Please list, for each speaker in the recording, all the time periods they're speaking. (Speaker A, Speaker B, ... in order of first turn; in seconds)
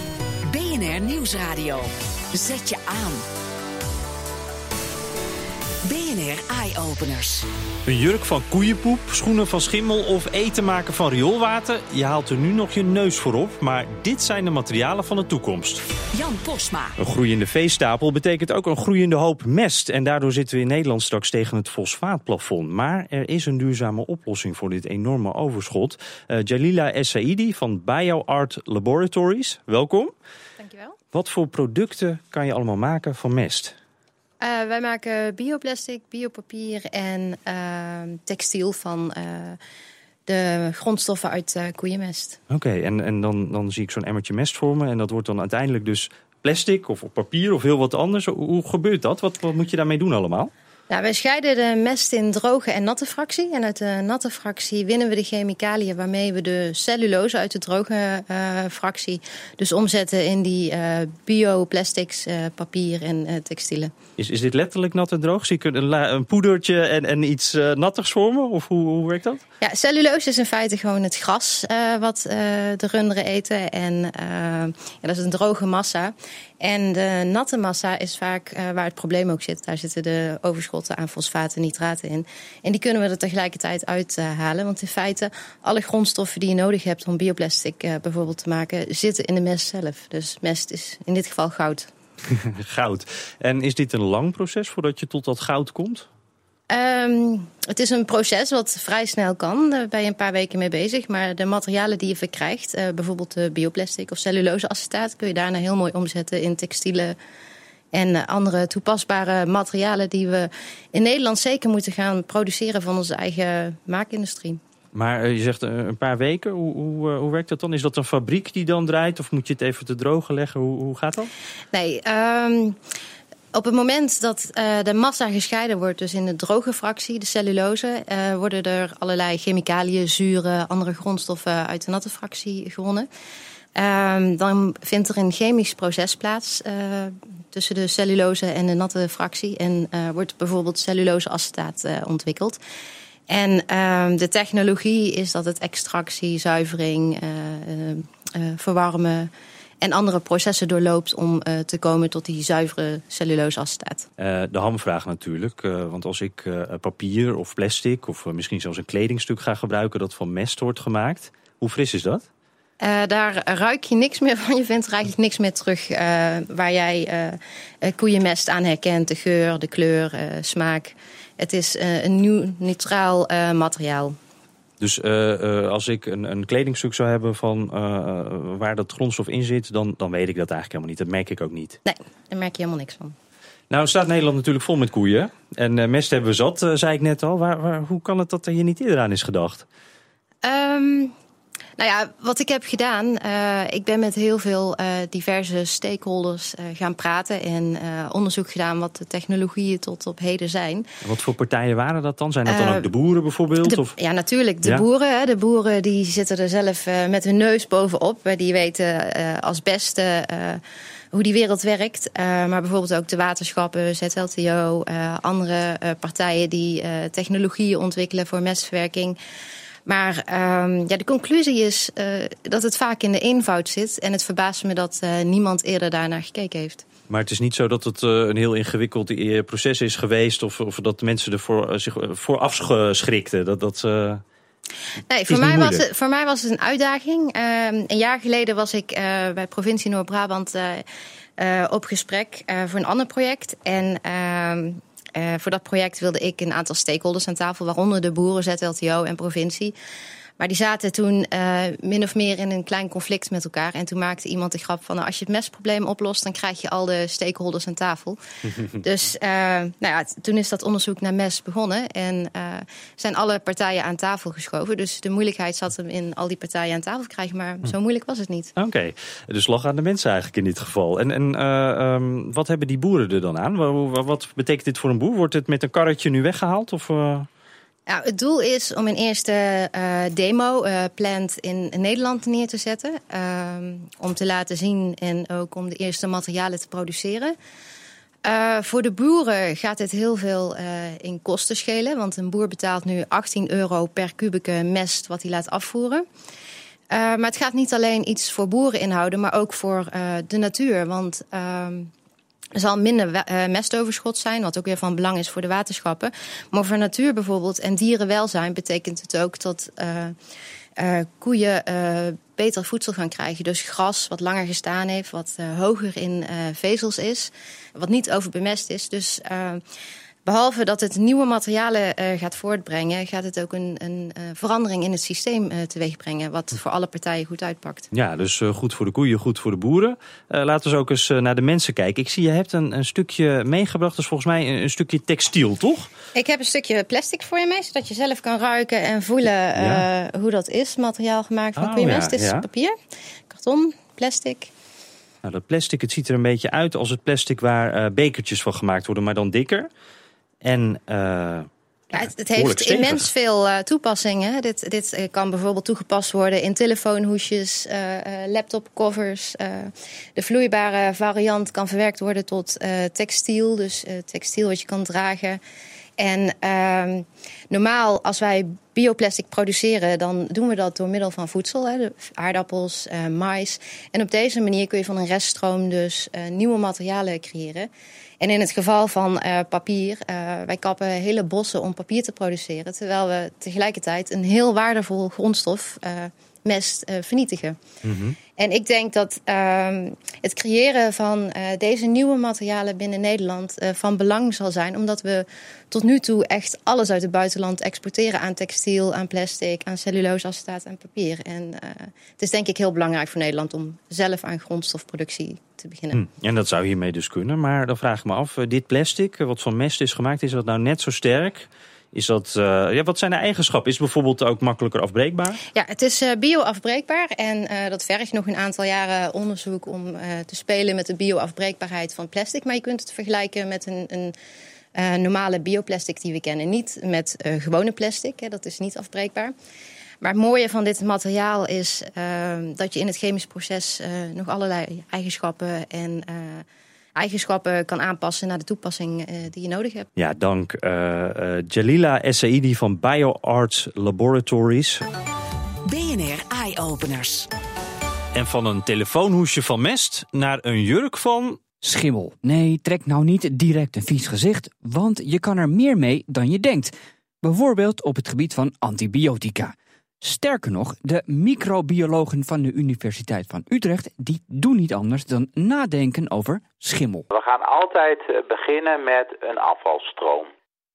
Speaker A: 0.5-3.2, 5.8-7.5, 16.1-16.9, 445.6-447.3
Speaker B: 7.8-15.8, 17.0-30.1, 31.1-33.7, 42.5-50.5, 64.2-69.4, 92.3-96.1, 114.9-121.3, 154.2-162.3, 174.8-181.8, 183.7-189.6, 201.0-203.9, 227.1-234.2, 235.3-235.8, 268.6-277.3, 327.9-335.9, 339.6-339.8, 341.6-342.4, 345.2-349.7, 350.4-353.1, 387.8-388.1, 405.9-415.4, 440.0-444.8, 448.1-451.4
Speaker C: 30.6-30.9, 34.4-39.6, 40.3-42.4, 50.9-63.9, 69.6-91.9, 96.7-107.1, 107.9-114.6, 121.7-122.8, 123.5-133.1, 133.7-142.6, 143.3-149.3, 149.8-154.1, 162.8-174.2, 181.8-183.1, 190.4-191.1, 191.8-200.8, 202.5-202.8, 203.7-210.6, 211.1-219.2, 219.8-226.8, 235.1-240.8, 241.4-249.7, 250.4-258.2, 258.8-268.5, 277.9-287.4, 288.2-296.1, 296.9-301.9, 302.5-310.1, 310.8-319.6, 320.2-327.9, 336.1-342.8, 343.3-344.5, 351.9-365.4, 366.0-377.7, 378.2-387.6, 388.4-406.0, 415.5-424.1, 424.7-429.3, 430.0-439.9
Speaker D: 451.6-467.1
Speaker E: 467.1-470.3